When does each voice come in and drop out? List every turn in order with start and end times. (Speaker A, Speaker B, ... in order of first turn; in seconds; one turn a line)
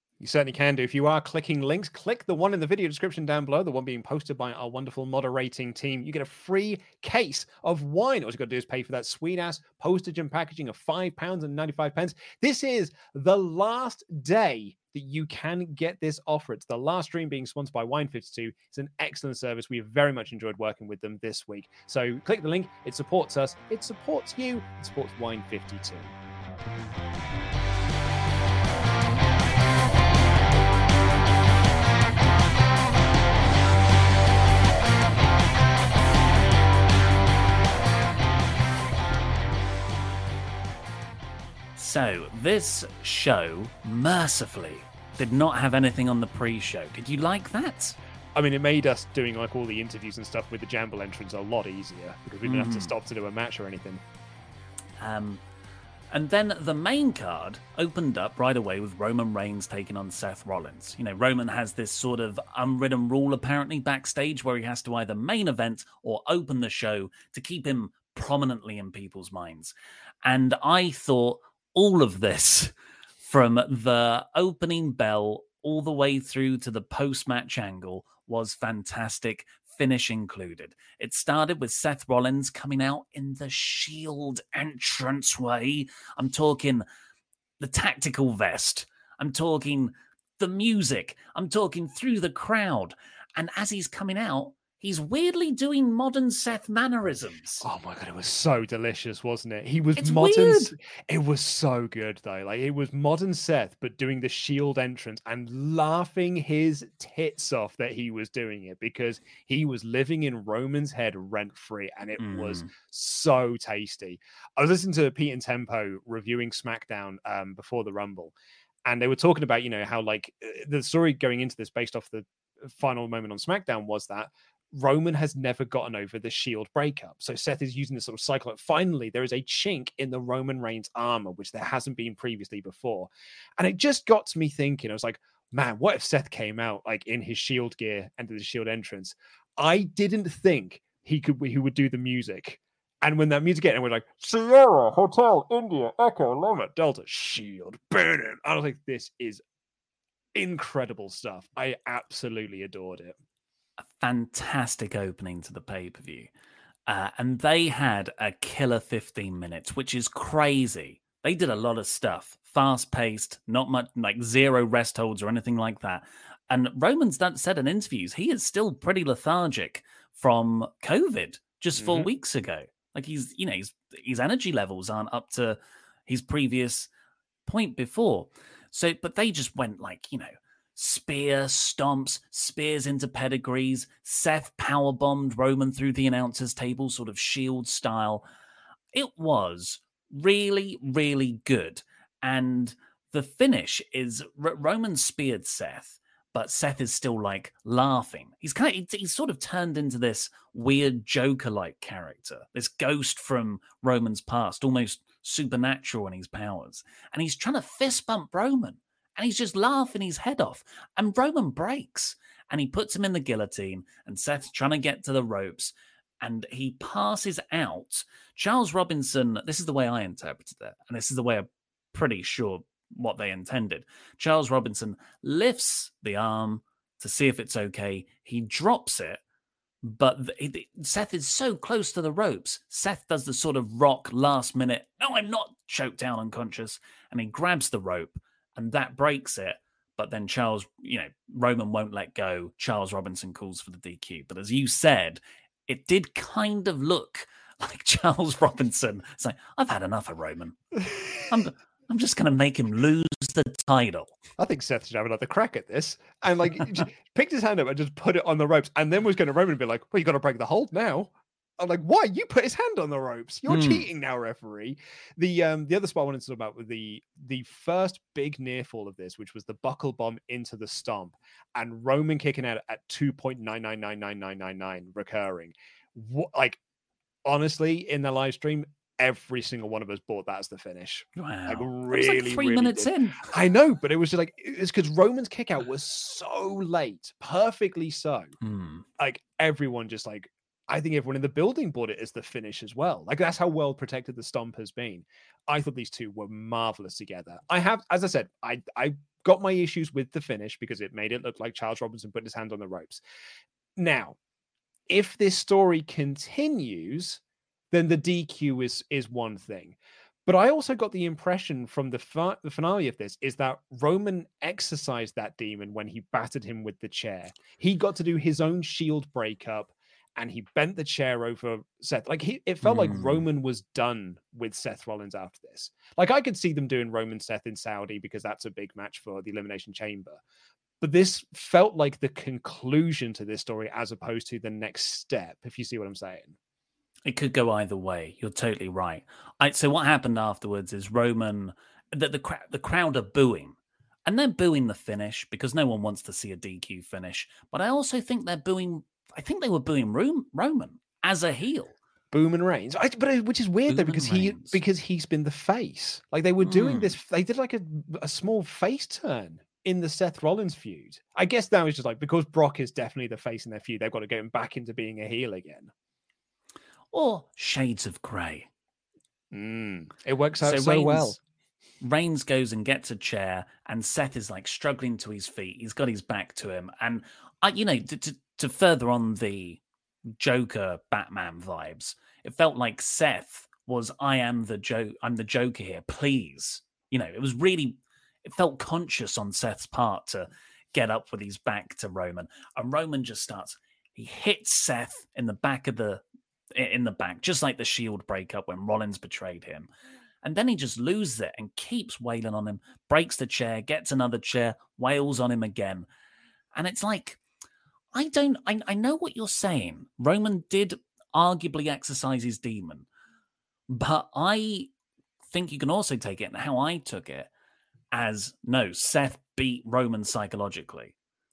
Speaker A: 0.2-26.1
Speaker B: 41.8-48.0
Speaker A: 48.4-54.0
Speaker B: 52.4-52.9
Speaker B: 55.0-55.4
Speaker B: 56.1-86.8
Speaker B: 87.6-97.6
Speaker A: 97.6-118.3
Speaker B: 100.0-100.7
Speaker B: 112.2-112.7
Speaker A: 118.8-149.4
Speaker A: 150.3-153.2
Speaker B: 153.8-156.3
Speaker B: 156.9-176.9
Speaker A: 171.8-172.1
Speaker B: 177.4-188.2
Speaker B: 188.9-229.2
Speaker B: 229.8-250.6
Speaker B: 251.3-254.1
Speaker A: 254.4-276.6
Speaker B: 263.5-263.9
Speaker A: 277.2-288.3
Speaker B: 281.1-283.3
Speaker B: 288.4-288.9
Speaker A: 289.0-303.0
Speaker A: 303.8-304.1
Speaker A: 304.9-307.2
Speaker A: 307.7-330.2
Speaker B: 322.6-323.2
Speaker A: 330.8-336.3
Speaker B: 337.0-351.7
Speaker A: 352.1-365.7
Speaker B: 353.7-354.6
Speaker B: 356.4-357.0
Speaker B: 366.9-368.5
Speaker A: 369.3-371.2
Speaker B: 370.4-371.2
Speaker B: 371.8-399.7
Speaker B: 400.2-405.9
Speaker B: 406.5-407.2
Speaker B: 407.9-412.9
Speaker B: 413.7-414.7
Speaker B: 415.2-417.3
Speaker B: 417.9-420.9